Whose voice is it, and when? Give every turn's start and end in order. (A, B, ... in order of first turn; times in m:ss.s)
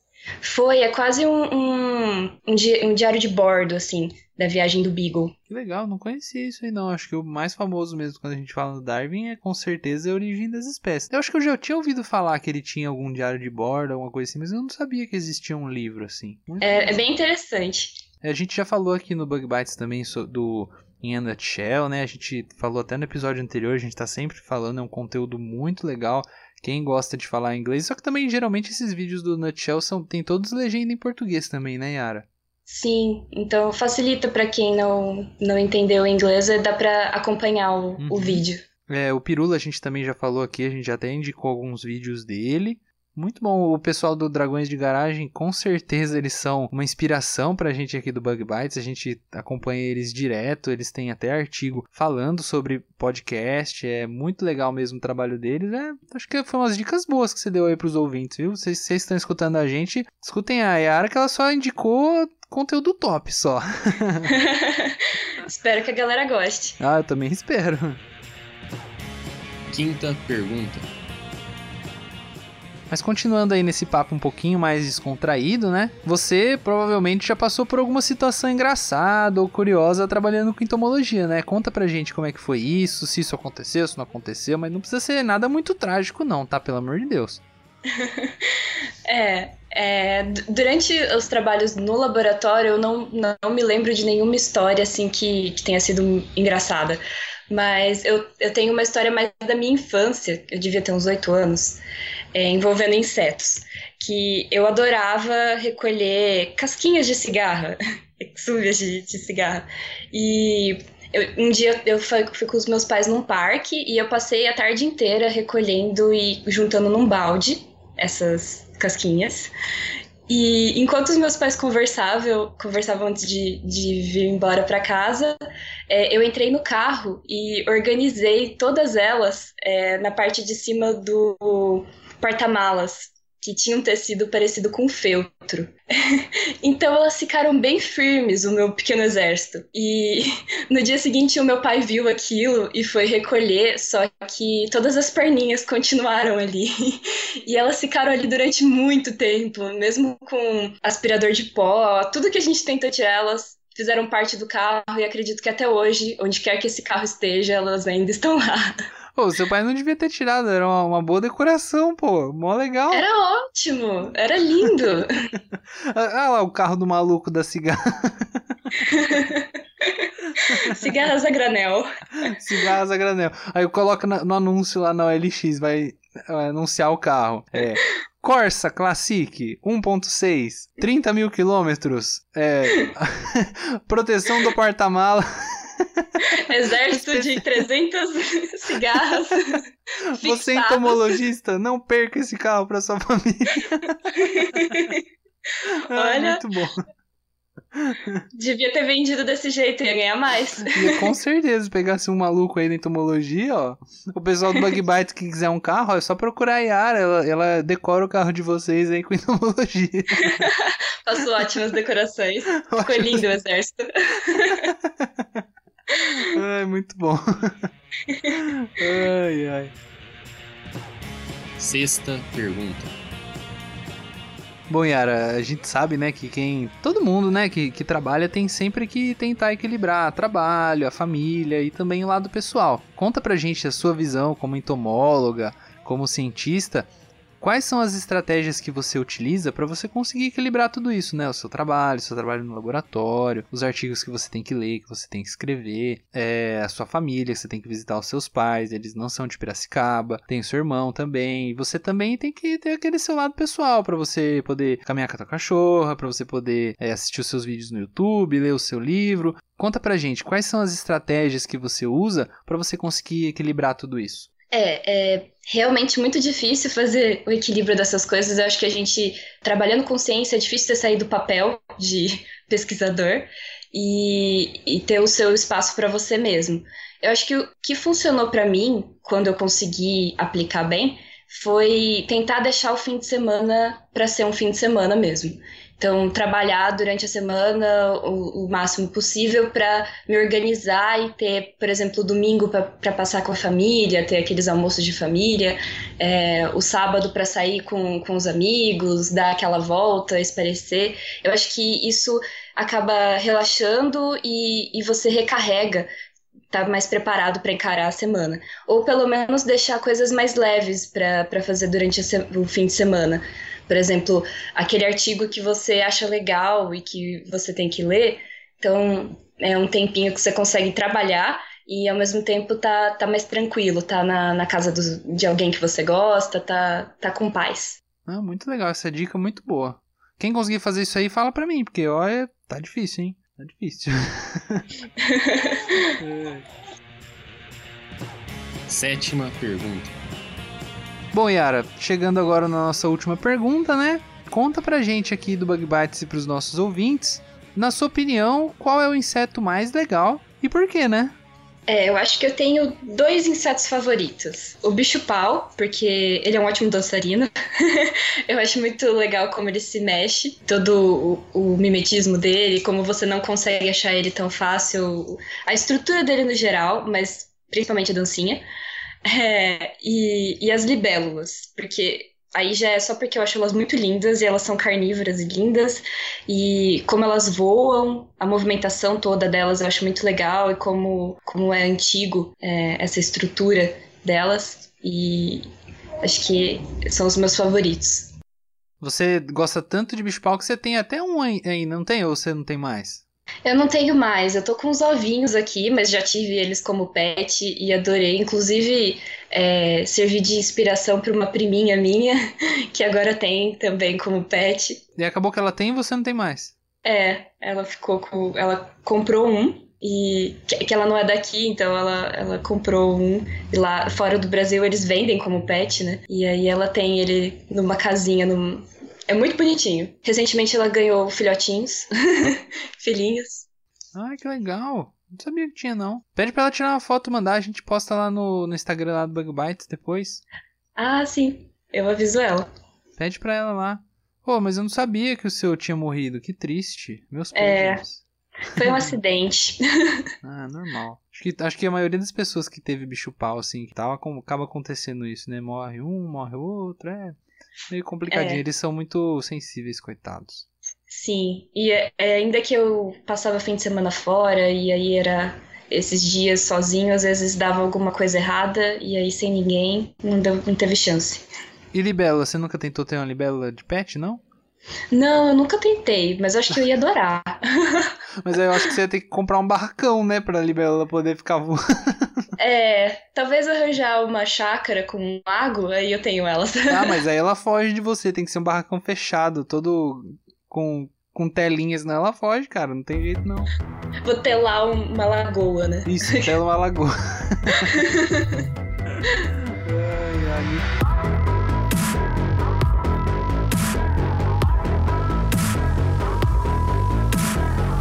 0:00.4-0:05.4 A
0:05.5-0:17.0 B
0:16.6-0:18.0 A
0:18.2-0:32.3 B
0:32.7-0:38.6 A
0:38.0-1:04.3 B
1:04.3-1:06.8 A
1:06.8-1:08.0 B
1:09.7-1:10.9 C
1:12.9-1:27.4 B
1:27.9-1:28.4 A
1:29.1-1:37.0 A
1:37.5-1:41.8 A
1:42.3-1:59.5 A
2:00.3-2:05.4 A
2:05.9-2:38.7 A
2:39.2-2:43.1 B
2:42.9-2:45.1 A
2:45.9-2:48.8 B
2:48.9-2:51.9 A
2:52.2-3:06.3 B
3:06.5-3:09.6 A
3:06.9-3:07.6 B
3:10.2-3:11.0 A
3:10.2-3:14.8 B
3:14.2-3:15.0 A
3:15.9-3:16.9 B
3:15.9-3:16.4 A
3:17.7-3:18.2 B
3:18.3-3:21.0 A
3:20.7-3:30.5 B
3:30.3-3:34.7 A
3:32.7-3:33.2 B
3:34.6-3:37.7 B
3:38.3-3:39.7 B
3:41.6-3:42.9 C
3:44.7-3:56.9 B
3:57.4-4:24.3 B
4:24.5-5:05.9 A
5:06.5-5:27.8 A
5:28.1-5:34.7 B
5:35.0-5:35.8 A
5:36.0-5:36.5 B
5:38.7-5:39.9 C
5:41.1-5:51.1 B
5:51.7-6:08.4 A
6:09.0-6:25.5 A
6:26.0-6:28.1 A
6:28.8-6:33.0 B
6:33.4-6:42.2 A
6:42.7-6:44.8 A
6:45.0-6:46.5 B
6:46.8-7:03.5 A
7:04.0-7:10.2 B
7:10.8-7:12.5 A
7:13.0-7:18.0 B
7:17.4-7:17.8 A
7:18.6-7:19.0 B
7:18.6-7:20.0 A
7:20.2-7:27.2 B
7:27.7-7:30.5 B
7:28.1-7:28.4 A
7:30.9-7:41.2 A
7:41.7-7:44.2 B
7:44.9-7:47.9 A
7:48.2-7:52.3 B
7:52.4-7:57.0 A
7:56.7-8:03.5 B
8:04.1-8:06.3 A
8:05.9-8:07.8 B
8:07.6-8:08.4 A
8:09.6-8:10.7 B